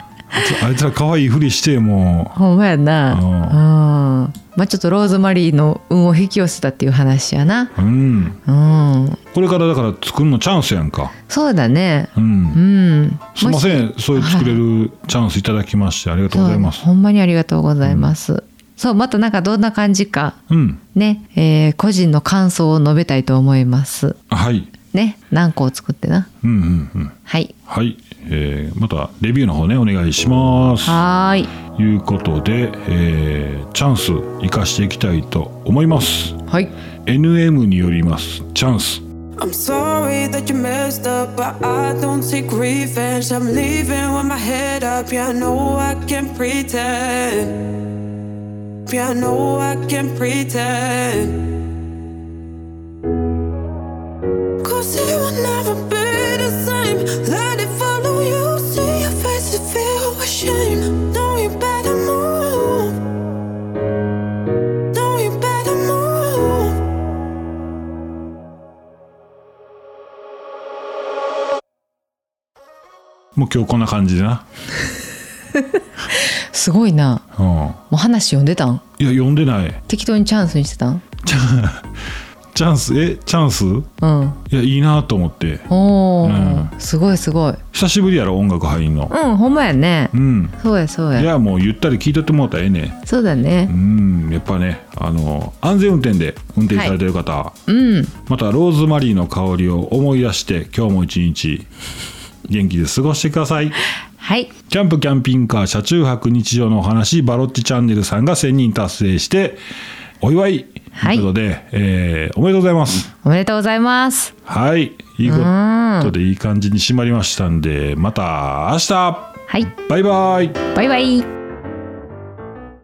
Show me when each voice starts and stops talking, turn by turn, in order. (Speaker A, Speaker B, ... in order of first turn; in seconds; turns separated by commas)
Speaker A: 0.3-2.4, Speaker B: 2.3-7.7, Speaker A: 3.1-3.6, Speaker A: 7.8-8.4, Speaker B: 8.5-9.2, Speaker A: 9.3-11.1, Speaker B: 11.3-14.6, Speaker A: 12.2-12.6, Speaker A: 13.4-16.9, Speaker B: 16.3-20.4, Speaker A: 17.9-18.1, Speaker A: 20.5-20.8, Speaker B: 20.9-24.2, Speaker A: 24.3-24.7, Speaker B: 24.9-26.3, Speaker A: 26.4-27.2, Speaker B: 27.3-27.5, Speaker A: 27.7-31.0, Speaker B: 30.9-31.5, Speaker A: 31.7-36.4, Speaker B: 36.5-36.7, Speaker A: 37.0-39.0, Speaker C: 39.4-47.8, Speaker C: 48.9-51.6, Speaker C: 54.6-63.0, Speaker C: 64.9-66.8, Speaker A: 73.3-74.4, Speaker B: 76.1-77.2, Speaker A: 77.4-77.8, Speaker B: 77.9-78.8, Speaker A: 79.0-79.8, Speaker B: 79.9-81.0, Speaker A: 81.2-82.0, Speaker A: 82.5-83.9, Speaker B: 84.0-84.4, Speaker A: 84.5-85.7, Speaker B: 85.7-87.6, Speaker A: 86.2-86.7, Speaker A: 87.7-89.2, Speaker B: 89.1-91.3, Speaker A: 90.1-90.6, Speaker A: 91.2-93.0, Speaker B: 93.1-93.7, Speaker A: 93.7-97.6, Speaker B: 97.7-98.1, Speaker A: 98.2-101.7, Speaker A: 102.5-103.8, Speaker B: 104.2-104.5, Speaker A: 104.7-109.6, Speaker A: 110.2-113.1, Speaker B: 111.0-111.3, Speaker B: 113.2-114.3, Speaker A: 114.5-120.7, Speaker B: 115.2-116.1, Speaker B: 120.7-121.3